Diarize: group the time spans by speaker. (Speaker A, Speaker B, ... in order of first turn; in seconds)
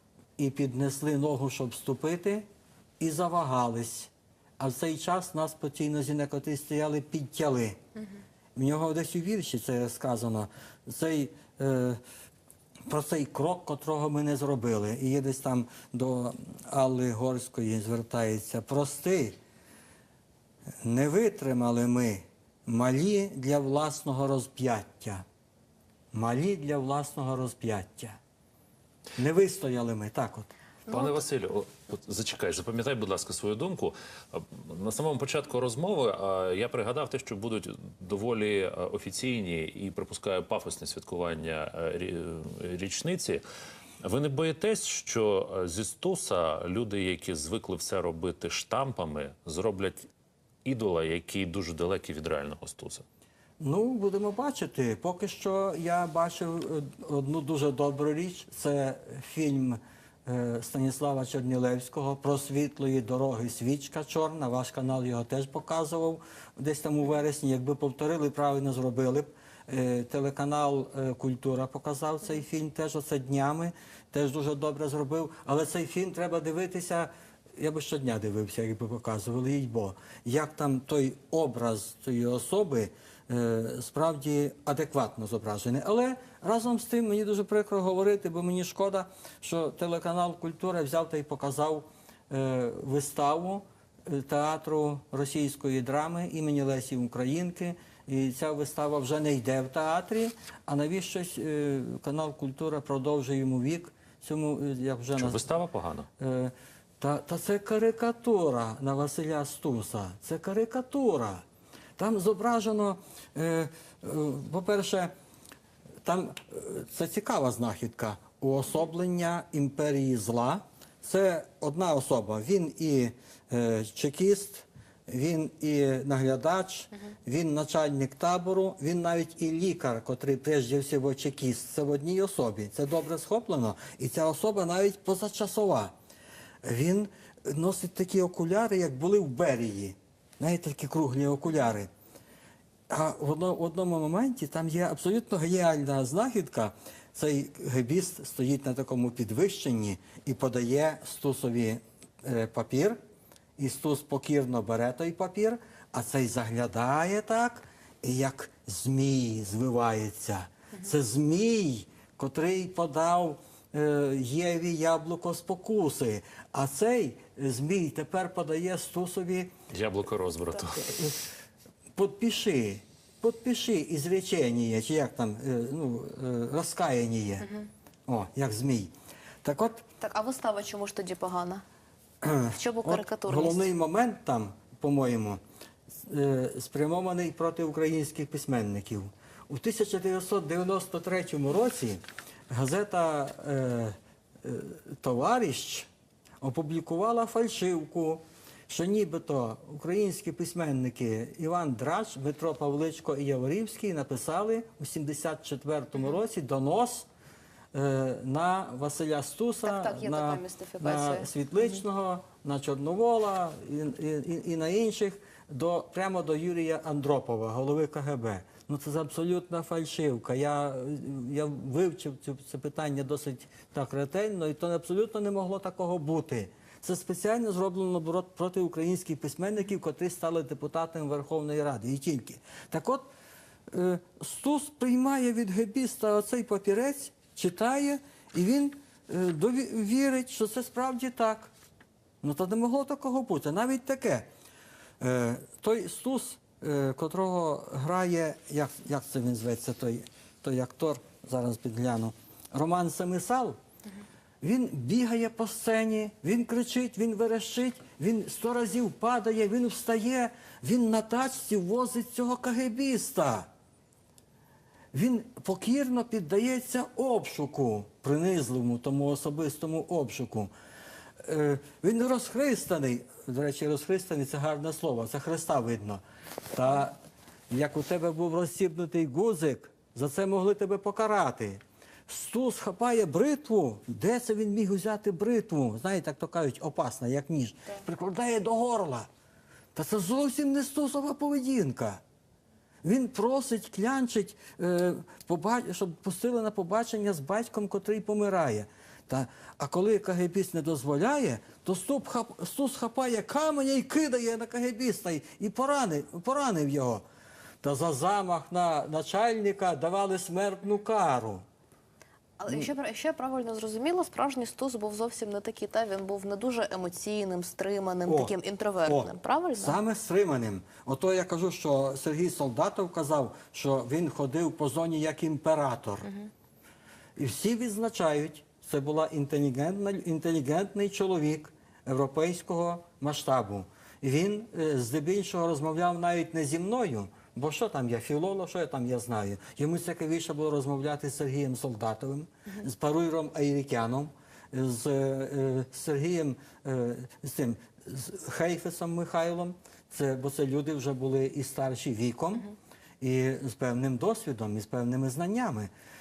Speaker A: 0.4-2.5, 3.0-7.8, 8.6-12.0, 12.9-19.4, 20.8-25.2, 26.1-28.2, 29.2-30.5, 53.6-105.5, 106.2-111.4, 112.0-115.1, 116.0-135.9, 136.6-141.9, 142.9-153.0, 153.6-169.6, 170.8-171.2, 171.9-177.5, 178.1-178.9, 179.4-179.8, 182.2-185.4, 186.0-195.9, 196.4-207.1, 207.7-233.1, 233.7-241.5, 242.2-244.3, 245.0-253.6, 254.4-263.5, 264.9-270.5, 271.2-277.0, 277.5-289.1, 289.7-292.0, 292.8-307.0, 307.6-311.4, 318.1-318.3, 318.9-326.1, 327.2-355.7
Speaker B: 30.9-43.4, 44.0-50.1, 50.6-53.0, 105.2-106.1, 169.7-171.0
Speaker C: 180.0-181.6, 182.5-183.7, 209.6-211.3, 312.4-319.8